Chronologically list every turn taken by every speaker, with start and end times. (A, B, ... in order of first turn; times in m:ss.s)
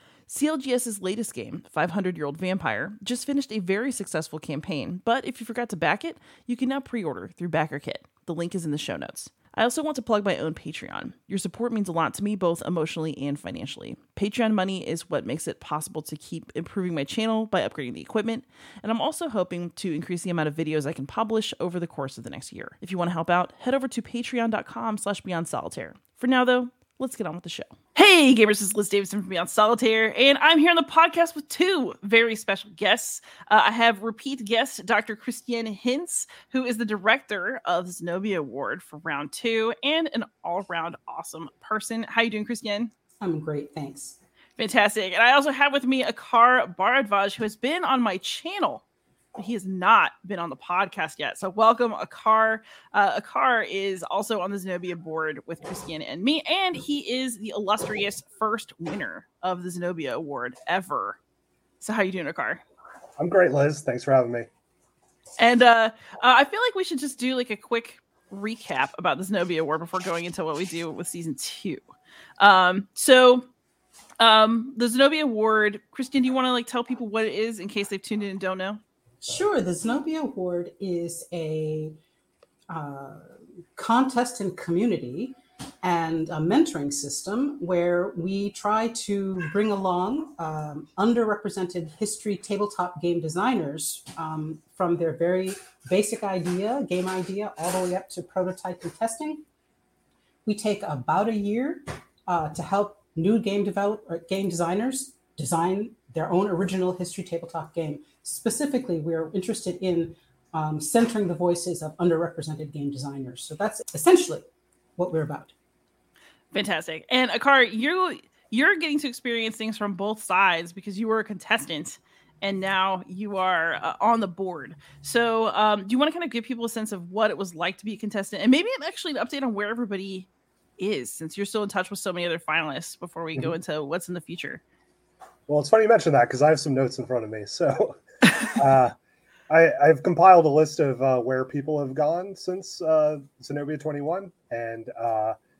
0:00.3-0:42.9 A
0:43.2-0:44.2 B
0:44.6-1:01.2 A
1:01.8-1:02.6 A
1:03.2-1:04.5 C
1:05.4-1:11.9 A
1:12.4-1:13.5 A
1:14.2-1:18.8 A
1:19.2-1:22.0 B
1:22.7-1:39.4 B
1:40.4-1:54.4 B
1:55.0-1:55.5 B
1:56.5-2:14.6 A
2:15.5-2:19.0 C
2:19.5-2:25.4 C